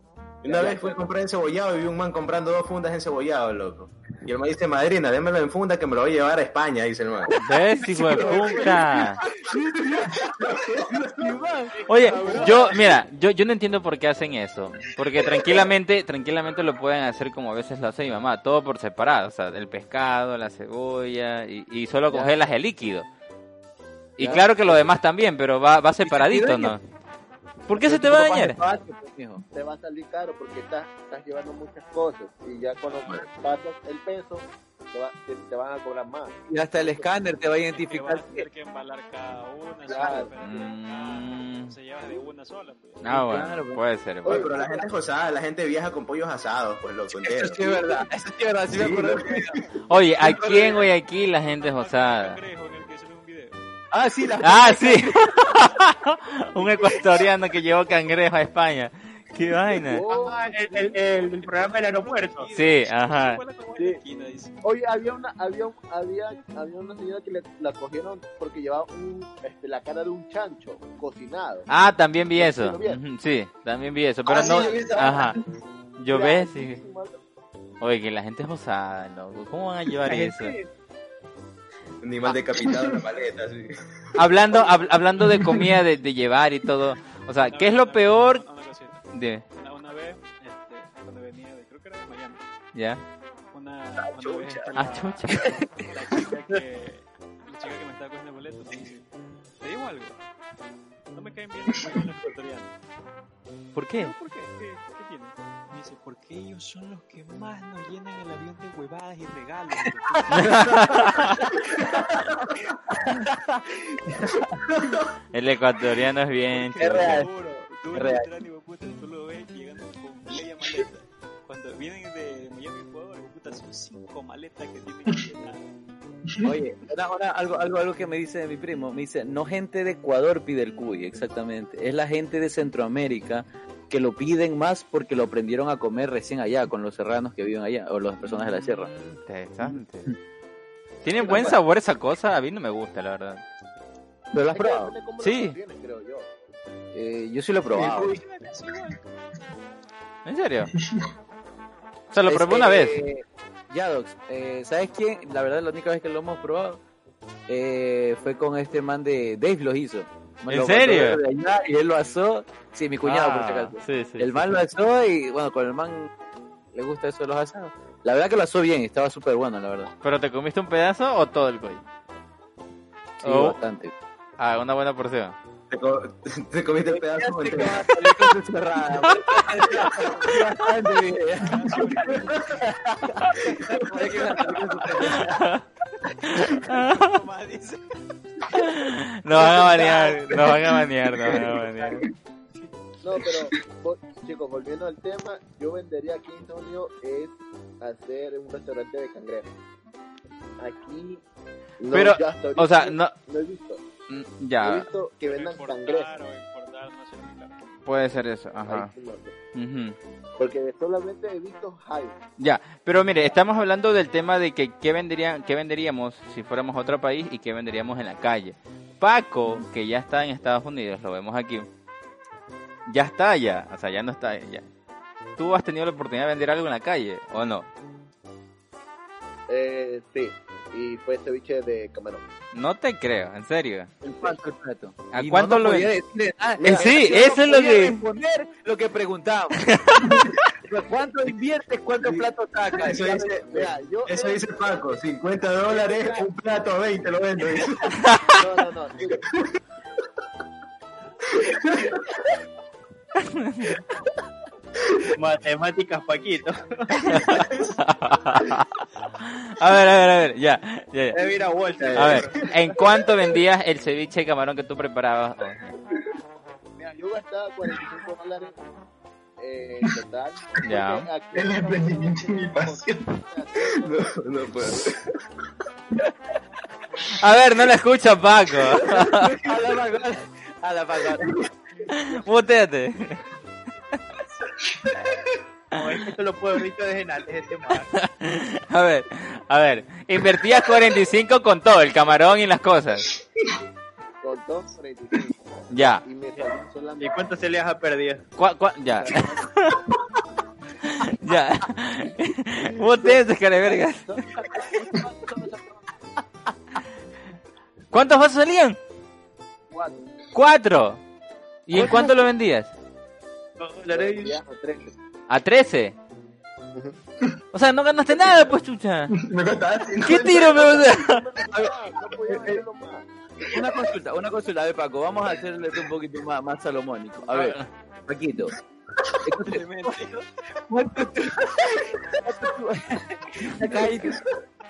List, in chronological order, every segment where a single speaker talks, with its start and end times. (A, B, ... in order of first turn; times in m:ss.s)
0:00.4-0:07.3 A
0:00.4-0:01.0 B
0:07.3-0:08.8 C
0:07.4-0:09.2 D
0:08.1-0:08.7 A
0:09.4-0:12.8 C
0:09.9-0:11.3 A
0:11.9-0:23.0 D
0:12.0-0:12.7 B
0:22.1-0:22.4 C
0:24.2-0:26.8 D
0:24.2-0:24.9 C
0:26.0-0:26.7 C
0:27.7-0:28.6 D
0:27.7-0:29.4 C
0:29.5-0:37.1 B
0:32.8-0:33.2 E
0:36.5-0:38.5 C
0:37.7-0:43.1 E
0:39.8-0:40.3 B
0:40.4-0:41.7 D
0:43.0-0:44.5 D
0:43.0-0:43.8 C
0:44.2-0:47.6 A
0:44.3-0:44.8 B
0:47.1-0:49.6 C
0:48.7-0:49.5 A
0:49.9-0:52.4 D
0:50.2-0:50.9 C
0:51.2-0:53.7 E
0:53.9-0:55.4 C
0:54.4-1:00.0 D
0:59.8-1:00.9 B
1:00.1-1:02.5 F
1:00.9-1:04.6 E
1:02.5-1:03.4 D
1:04.6-1:11.7 B
1:11.7-1:15.4 D
1:12.4-1:13.0 B
1:14.2-1:15.4 G
1:16.0-1:16.8 D
1:16.1-1:17.2 B
1:17.8-1:20.6 D
1:20.1-1:20.7 F
1:22.0-1:23.9 A
1:22.6-1:23.0 G
1:24.1-1:28.4 D
1:27.4-1:29.0 E
1:29.1-1:29.4 D
1:29.5-1:32.4 E
1:32.7-1:33.0 D
1:33.5-1:39.1 E
1:34.2-1:34.6 A
1:34.7-1:35.5 D
1:35.3-1:35.6 C
1:39.6-1:40.2 E
1:41.1-1:42.7 E
1:43.7-1:44.1 D
1:43.9-1:52.1 E
1:50.3-1:51.4 D
1:50.9-1:51.3 C
1:53.0-1:53.4 C
1:53.9-1:54.5 C
1:55.3-1:57.2 D
1:56.5-2:05.7 E
1:56.8-1:57.3 C
1:57.9-1:58.3 C
2:06.4-2:18.9 C
2:18.3-2:20.1 D
2:21.0-2:23.4 D
2:21.2-2:21.5 B
2:21.2-2:21.5 C
2:24.3-2:24.9 C
2:24.5-2:26.3 B
2:25.2-2:25.6 D
2:26.9-2:28.1 C
2:27.7-2:28.2 G
2:27.8-2:29.0 E
2:30.2-2:30.7 D
2:32.1-2:33.0 D
2:32.2-2:36.8 C
2:37.5-2:46.1 C
2:40.5-2:41.2 D
2:43.0-2:44.5 D
2:46.7-2:49.9 C
2:50.0-2:51.8 D
2:53.2-2:53.6 D
2:53.2-2:53.9 C
2:54.4-2:55.4 D
2:55.7-2:57.9 A
2:56.9-3:05.4 C
2:59.8-3:00.6 E
3:01.3-3:02.7 E
3:03.3-3:05.4 E
3:05.2-3:05.6 D
3:06.2-3:08.0 E
3:06.2-3:07.2 D
3:08.5-3:12.1 D
3:09.4-3:10.5 G
3:13.0-3:19.5 B
3:20.6-3:21.2 B
3:21.8-3:23.8 B
3:21.9-3:23.1 D
3:24.1-3:24.9 D
3:24.6-3:26.1 B
3:25.3-3:27.6 E
3:27.8-3:28.9 D
3:28.6-3:29.3 B
3:29.5-3:30.0 D
3:30.4-3:32.2 B
3:32.4-3:41.7 D
3:42.9-3:44.7 D
3:45.4-3:47.7 D
3:49.5-3:52.2 B
3:52.5-3:53.9 D
3:54.0-4:00.1 C
3:55.1-3:55.9 D
3:56.6-3:57.0 B
3:56.6-3:58.0 D
3:59.7-4:00.4 D
4:00.7-4:03.5 C
4:02.0-4:08.1 A
4:03.5-4:04.6 B
4:05.6-4:06.3 B
4:08.3-4:09.2 B
4:11.4-4:11.8 A
4:13.3-4:13.8 D
4:15.1-4:17.4 F
4:17.0-4:21.2 D
4:17.3-4:17.7 A
4:21.1-4:22.8 F
4:21.8-4:22.2 A
4:21.9-4:25.7 D
4:26.8-4:28.6 B
4:29.4-4:34.1 B
4:30.6-4:31.1 D
4:31.3-4:33.2 G
4:33.8-4:35.1 A
4:37.2-4:39.3 D
4:38.8-4:41.4 C
4:41.9-4:43.2 D
4:45.7-4:47.9 F
4:47.9-4:53.1 D
4:54.2-4:57.3 B
4:55.7-4:56.0 D
4:57.0-4:58.2 F
4:58.4-4:59.8 D
4:58.9-4:59.5 B
5:00.8-5:04.1 D
5:02.6-5:05.9 B
5:07.9-5:08.8 D
5:09.7-5:10.0 B
5:10.3-5:11.0 D
5:11.7-5:12.7 D
5:13.6-5:14.4 F
5:13.9-5:14.9 B
5:15.3-5:15.9 D
5:17.5-5:19.1 D
5:19.1-5:20.8 G
5:20.0-5:21.2 D
5:20.3-5:23.0 B
5:22.3-5:22.6 C
5:23.5-5:28.5 C
5:27.3-5:27.6 D
5:29.2-5:30.0 C
5:29.4-5:30.3 E
5:30.7-5:34.2 C